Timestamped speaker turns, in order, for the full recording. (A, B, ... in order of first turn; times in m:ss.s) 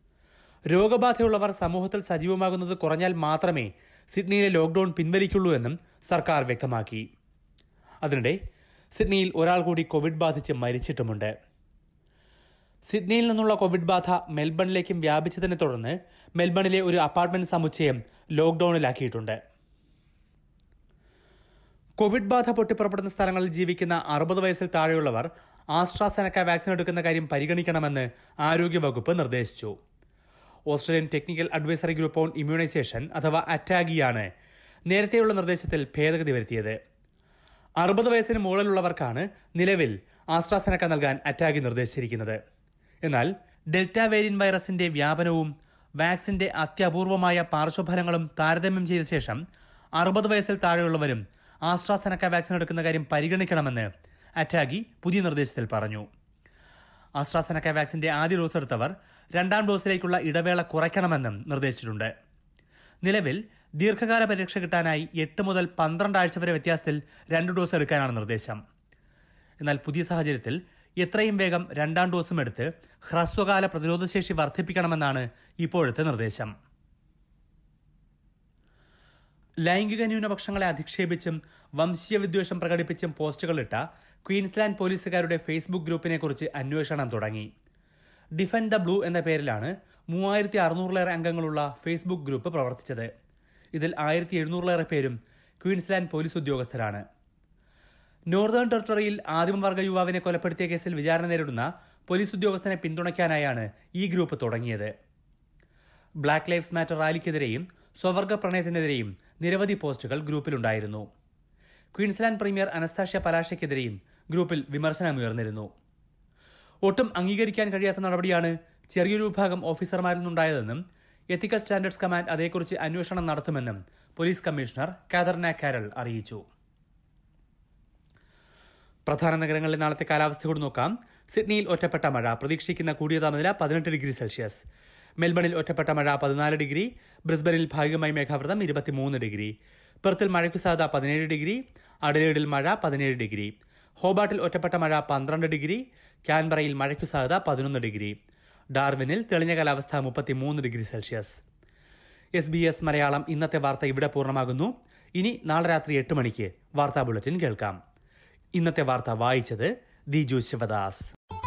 0:00.7-0:07.1 A
0:08.0-0:08.4 A
0:08.9-0:11.3 A
0:12.9-0:19.4 A
0:22.0-0:29.7 A
0:30.7-0:34.3 A
0:34.9-0:36.8 A
0:37.8-0:42.4 A
0:43.0-0:49.4 A
0:50.0-0:56.1 A
0:57.2-1:02.1 A
1:03.0-1:08.6 A
1:09.6-1:16.5 A
1:19.6-1:27.5 A
1:28.4-1:33.1 A
1:33.7-1:37.0 A
1:38.3-1:44.9 A
1:46.2-1:51.0 A
1:51.9-1:55.7 A
1:56.8-2:00.8 A
2:01.3-2:06.4 A
2:09.0-2:14.6 A
2:15.2-2:28.2 A
2:28.7-2:31.4 A
2:32.4-2:37.8 A
2:38.5-2:41.1 A